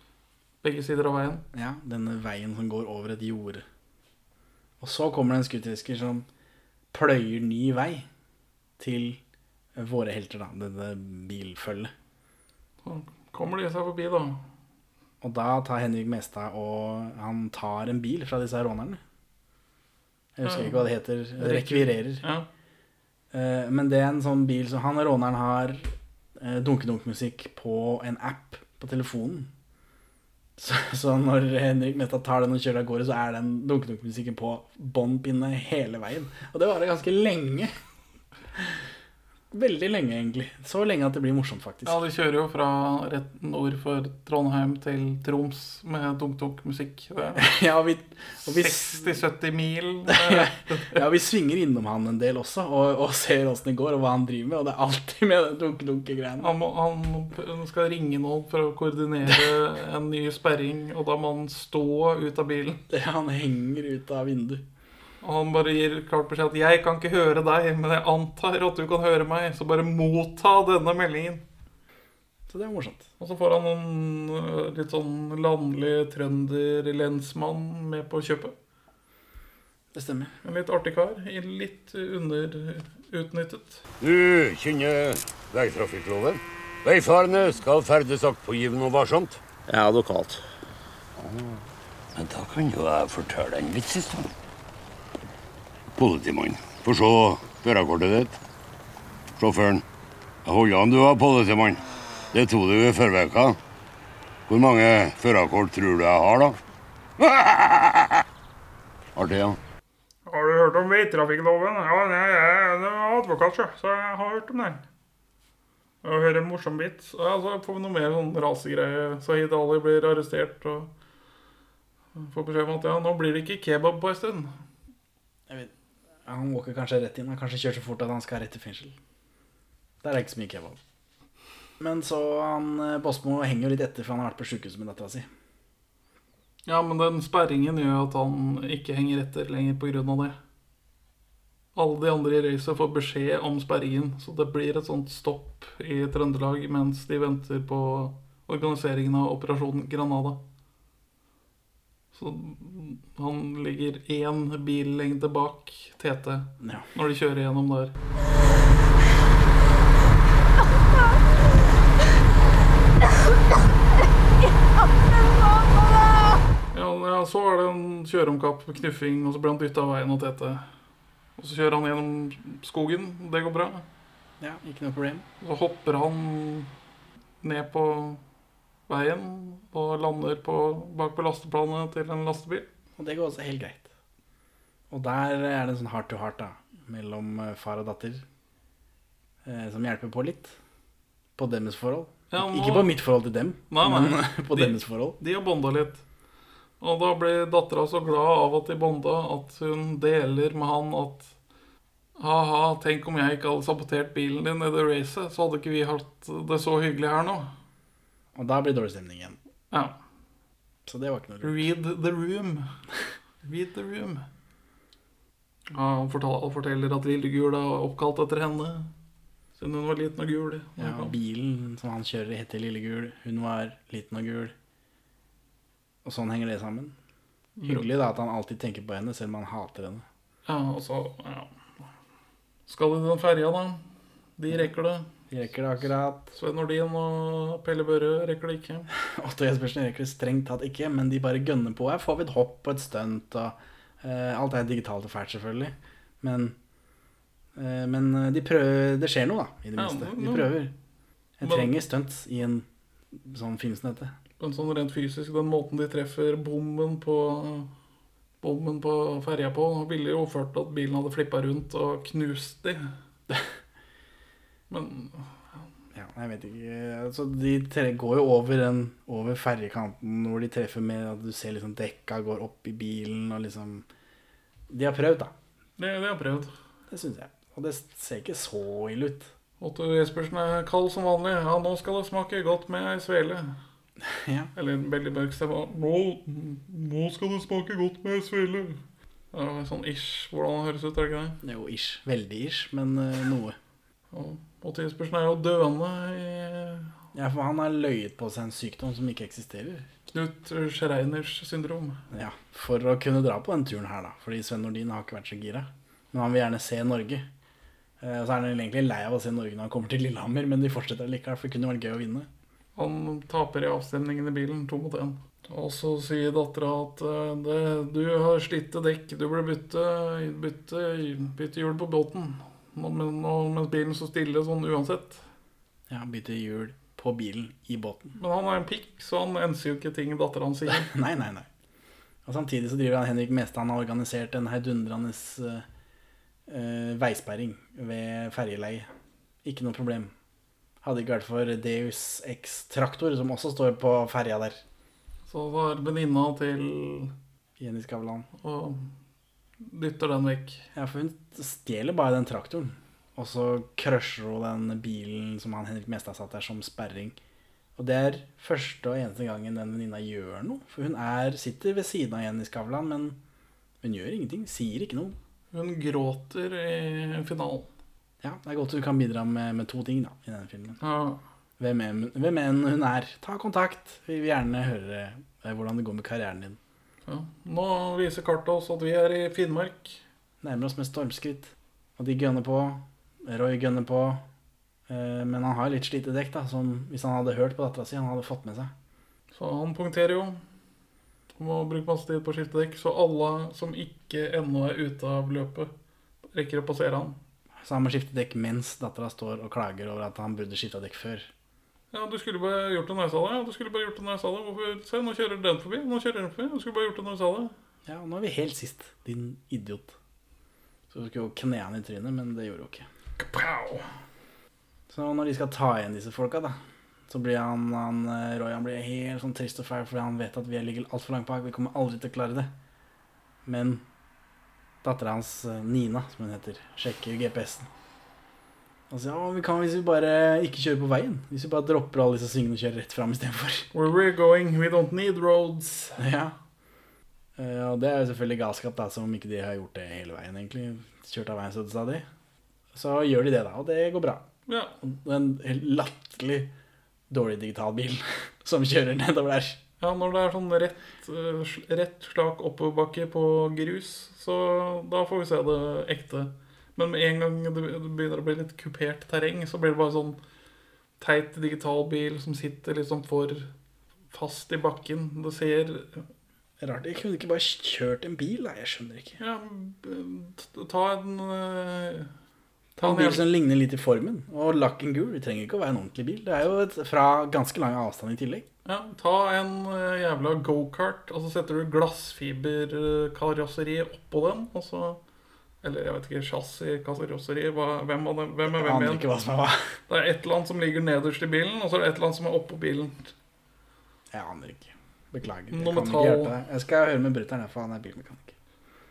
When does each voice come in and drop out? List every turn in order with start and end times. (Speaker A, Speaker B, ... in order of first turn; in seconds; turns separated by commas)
Speaker A: 0.6-1.4, Speaker B: 1.5-3.6, Speaker B: 4.8-6.3, Speaker B: 6.9-8.1, Speaker B: 8.8-9.2, Speaker B: 9.8-11.9, Speaker A: 12.8-14.4, Speaker B: 15.2-19.0, Speaker B: 20.4-22.2, Speaker A: 20.4-22.5, Speaker B: 23.3-29.5, Speaker B: 30.6-37.7, Speaker B: 39.5-42.0, Speaker A: 41.9-47.5, Speaker B: 47.4-49.1, Speaker A: 48.4-51.0, Speaker B: 50.1-56.6, Speaker A: 56.4-62.8, Speaker B: 62.9-64.7, Speaker A: 65.2-71.4, Speaker B: 72.5-73.1, Speaker A: 73.2-78.5, Speaker B: 79.9-80.3, Speaker A: 80.4-83.8, Speaker C: 84.0-89.8, Speaker C: 91.2-91.6, Speaker C: 92.2-94.3, Speaker C: 96.0-98.3, Speaker C: 99.4-99.8, Speaker C: 100.5-103.6, Speaker C: 104.5-106.6, Speaker C: 107.2-108.2, Speaker C: 109.2-109.6, Speaker A: 110.3-114.8, Speaker A: 116.0-120.9, Speaker A: 122.2-124.5, Speaker B: 126.3-129.0, Speaker B: 130.0-130.8, Speaker B: 131.8-135.3, Speaker A: 136.7-140.4, Speaker A: 141.8-150.4, Speaker A: 152.1-157.9, Speaker B: 156.6-156.9, Speaker A: 166.7-170.7, Speaker A: 171.4-173.9, Speaker B: 174.4-175.2, Speaker A: 175.4-176.7, Speaker A: 177.4-178.2, Speaker A: 178.9-182.7, Speaker B: 183.0-183.9, Speaker B: 184.9-188.2, Speaker B: 189.4-190.6, Speaker B: 191.4-195.2, Speaker A: 192.3-193.0, Speaker A: 193.7-196.0, Speaker A: 196.8-201.3, Speaker A: 202.2-207.5, Speaker B: 208.3-209.4, Speaker B: 210.9-211.7, Speaker A: 211.4-212.7, Speaker A: 213.4-214.3, Speaker A: 215.7-218.9, Speaker A: 219.6-221.2, Speaker B: 220.8-224.5, Speaker B: 226.1-226.9, Speaker A: 227.6-227.9, Speaker B: 227.7-230.1, Speaker A: 230.5-231.5, Speaker A: 232.7-233.8, Speaker A: 234.4-235.1, Speaker B: 235.3-236.3, Speaker A: 236.3-238.9, Speaker B: 239.0-246.6, Speaker B: 247.6-250.7, Speaker A: 249.8-250.6, Speaker B: 251.4-254.1, Speaker A: 251.4-251.7, Speaker A: 254.4-257.7, Speaker A: 258.4-262.9, Speaker A: 264.7-265.3, Speaker B: 265.9-273.9, Speaker B: 274.7-275.3, Speaker A: 275.8-276.5, Speaker B: 276.9-279.3, Speaker A: 279.6-283.6, Speaker B: 284.0-284.5, Speaker A: 284.6-288.8, Speaker A: 289.3-291.4, Speaker B: 291.4-293.6, Speaker A: 294.1-296.9, Speaker B: 297.1-299.9, Speaker A: 300.1-302.0, Speaker B: 302.1-307.3, Speaker B: 308.0-312.3, Speaker A: 312.8-325.2, Speaker B: 325.9-328.2, Speaker A: 328.2-330.9, Speaker B: 330.7-331.5, Speaker B: 332.3-335.6, Speaker B: 336.5-338.9, Speaker B: 339.4-340.1, Speaker B: 340.8-344.6, Speaker A: 345.3-347.1, Speaker B: 347.6-348.3, Speaker A: 348.4-348.9, Speaker A: 349.6-350.6, Speaker B: 350.8-357.2, Speaker B: 357.8-363.2, Speaker B: 363.8-365.2, Speaker A: 365.5-367.7, Speaker B: 368.2-370.8, Speaker A: 370.8-371.2, Speaker B: 371.6-376.6, Speaker A: 377.1-380.0, Speaker B: 380.4-384.2, Speaker B: 384.9-388.7, Speaker A: 389.3-390.4, Speaker A: 391.4-395.7, Speaker A: 396.3-397.2, Speaker B: 397.6-401.3, Speaker A: 401.9-407.5, Speaker B: 407.9-410.0, Speaker B: 410.9-412.9, Speaker A: 413.2-413.9, Speaker B: 414.9-416.6, Speaker B: 417.1-422.5, Speaker B: 423.4-423.8, Speaker B: 424.8-427.7, Speaker B: 428.9-433.7, Speaker A: 433.7-436.0, Speaker B: 436.0-436.4, Speaker B: 437.4-442.1, Speaker B: 442.7-444.2, Speaker A: 444.5-444.8, Speaker B: 444.8-446.5, Speaker B: 447.1-449.6, Speaker A: 449.8-460.2, Speaker A: 461.0-463.5, Speaker A: 464.1-466.1, Speaker B: 466.6-469.2, Speaker A: 469.2-472.1, Speaker B: 472.8-478.5, Speaker A: 472.8-473.2, Speaker A: 478.6-485.0, Speaker A: 485.6-489.0, Speaker B: 488.5-489.6, Speaker A: 489.9-493.1, Speaker B: 494.1-498.4, Speaker A: 495.5-496.3